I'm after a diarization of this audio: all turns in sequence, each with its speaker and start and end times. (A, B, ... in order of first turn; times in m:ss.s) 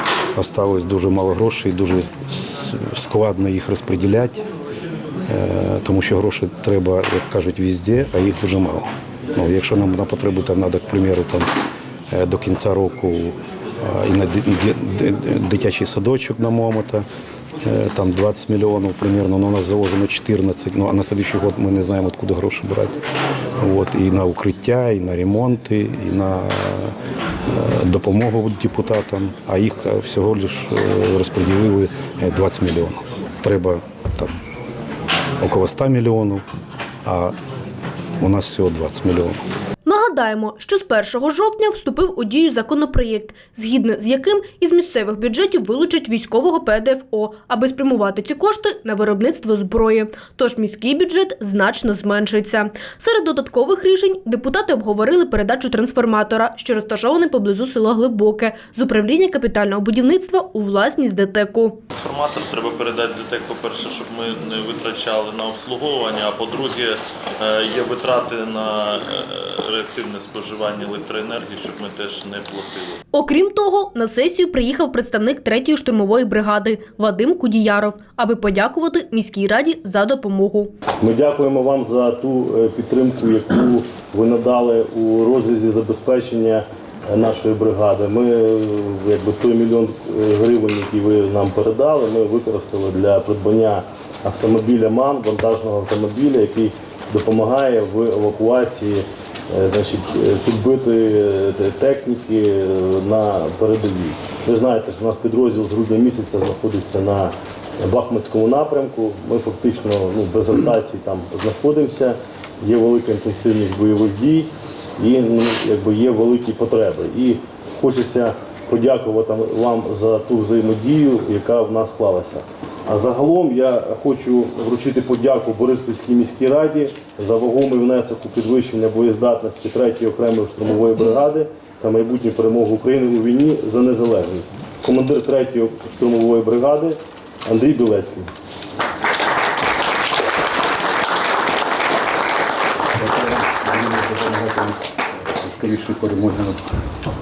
0:00.3-0:04.4 A
0:05.3-0:11.5 A
0:12.1-0:17.0 A
0:17.6-0:23.0 A
0:23.6-0:34.3 A
0:35.4-0:36.4 A
0:37.0-0:37.4 A
0:38.2-0:39.4 A
0:39.8-1:01.8 B
1:01.9-1:13.0 C
1:13.1-1:20.7 B
1:21.0-2:18.3 D
2:23.0-2:24.8 A
2:25.4-2:26.6 A